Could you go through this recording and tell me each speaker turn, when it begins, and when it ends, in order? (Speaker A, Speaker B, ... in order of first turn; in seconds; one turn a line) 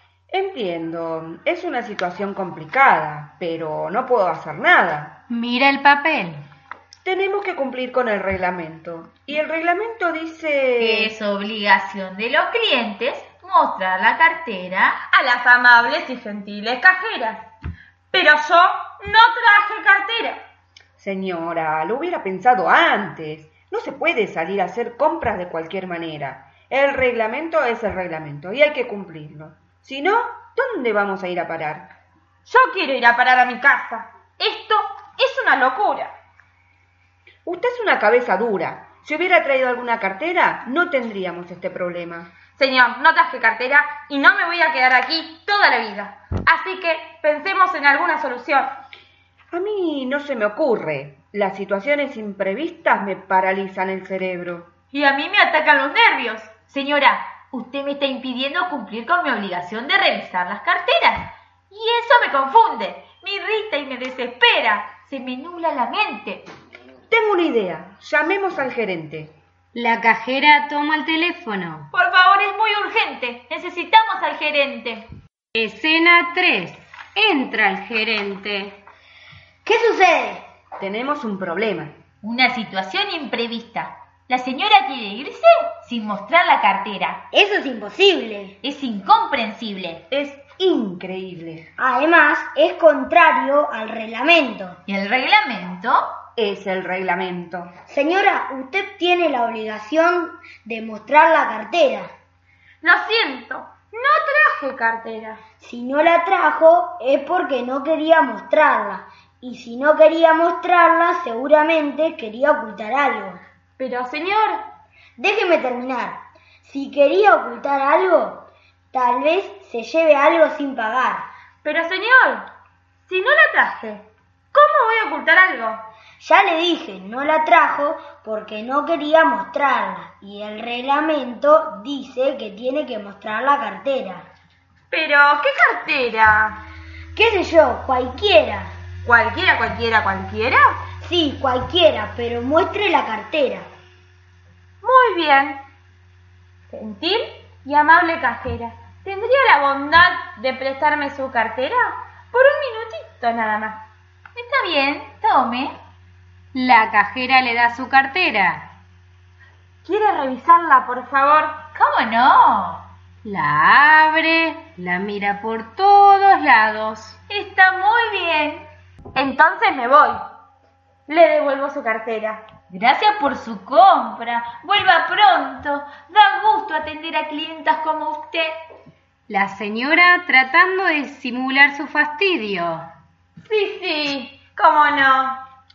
Speaker A: 0.3-5.2
Speaker B: 5.3-6.4
Speaker A: 7.0-11.1
Speaker C: 10.8-15.0
Speaker D: 15.1-17.5
Speaker D: 18.1-20.4
Speaker A: 21.0-31.9
Speaker D: 32.5-36.1
Speaker A: 37.5-42.3
Speaker D: 42.6-48.7
Speaker A: 49.5-54.7
Speaker C: 54.9-66.5
Speaker A: 67.1-69.3
Speaker B: 69.8-71.9
Speaker C: 71.9-75.0
Speaker B: 75.5-78.8
Speaker E: 79.7-80.4
Speaker A: 80.8-81.9
Speaker C: 82.2-87.2
Speaker E: 87.3-88.6
Speaker C: 88.6-90.0
Speaker A: 90.1-91.7
Speaker E: 91.8-94.8
Speaker C: 94.9-96.1
Speaker A: 96.4-97.7
Speaker E: 97.9-102.1
Speaker D: 102.8-105.4
Speaker E: 105.6-113.4
Speaker D: 113.8-114.6
Speaker E: 115.2-121.3
Speaker D: 121.6-122.5
Speaker D: 123.1-125.8
Speaker E: 126.2-134.3
Speaker D: 134.9-136.6
Speaker E: 137.2-138.7
Speaker D: 139.1-140.8
Speaker E: 141.0-143.7
Speaker D: 144.8-145.6
Speaker D: 146.7-153.8
Speaker C: 154.4-155.8
Speaker B: 156.5-158.6
Speaker D: 159.8-161.6
Speaker C: 161.7-162.9
Speaker B: 163.2-167.2
Speaker C: 167.3-168.7
Speaker D: 169.2-170.2
Speaker D: 171.1-172.4
Speaker C: 172.7-178.5
Speaker B: 179.3-182.9
Speaker D: 183.4-185.4